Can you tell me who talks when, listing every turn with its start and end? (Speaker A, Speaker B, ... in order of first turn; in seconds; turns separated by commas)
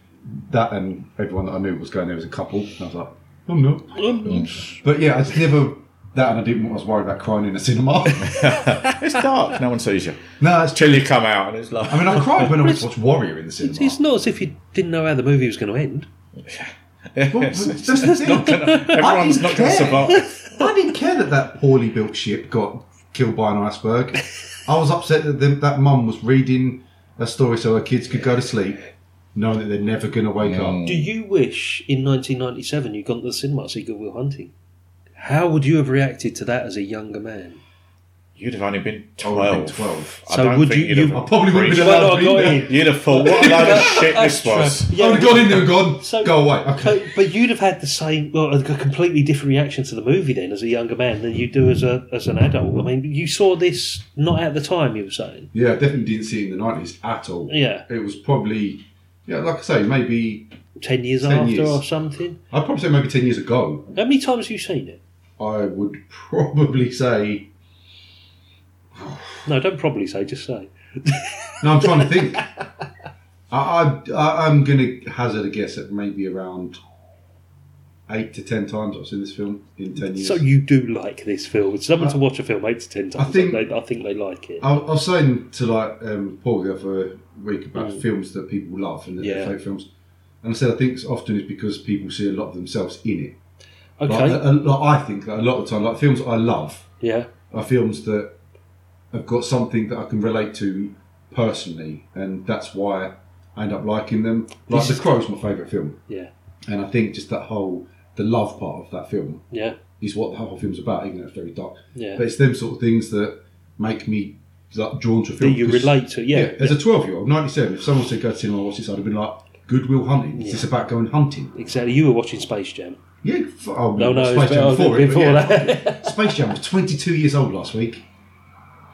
Speaker A: 0.2-8.4, Speaker B: 3.9-4.8, Speaker C: 8.2-12.5, Speaker B: 8.5-8.9, Speaker A: 10.4-11.1, Speaker A: 11.8-14.0, Speaker B: 12.3-12.9, Speaker B: 13.6-16.1, Speaker C: 16.4-20.4, Speaker A: 17.3-28.8, Speaker A: 29.3-30.8, Speaker C: 30.4-31.1, Speaker B: 30.8-34.5, Speaker B: 35.2-37.6, Speaker C: 38.4-44.9, Speaker A: 39.2-40.2, Speaker B: 40.3-55.5, Speaker A: 41.1-44.1, Speaker A: 44.9-47.1, Speaker A: 55.5-60.5, Speaker B: 57.5-57.9, Speaker B: 60.8-62.4, Speaker A: 61.2-61.8, Speaker A: 62.5-63.9, Speaker B: 63.9-65.0, Speaker A: 65.4-67.5, Speaker A: 69.0-69.4, Speaker B: 69.4-72.4, Speaker A: 71.6-72.4, Speaker A: 73.5-76.8, Speaker A: 78.1-80.4, Speaker B: 80.0-84.7, Speaker A: 83.2-83.6, Speaker A: 84.6-89.9, Speaker B: 87.8-88.0, Speaker B: 89.2-89.5, Speaker A: 90.4-93.4, Speaker B: 94.0-94.5, Speaker A: 94.0-96.9, Speaker B: 97.0-97.3, Speaker A: 97.5-98.3, Speaker A: 99.1-106.0, Speaker B: 104.7-105.1, Speaker A: 106.7-109.4, Speaker B: 109.5-109.8, Speaker A: 110.0-121.5, Speaker B: 111.9-112.2, Speaker B: 115.4-116.8, Speaker B: 120.3-120.7, Speaker B: 121.5-123.0, Speaker A: 123.2-128.0, Speaker B: 124.0-126.4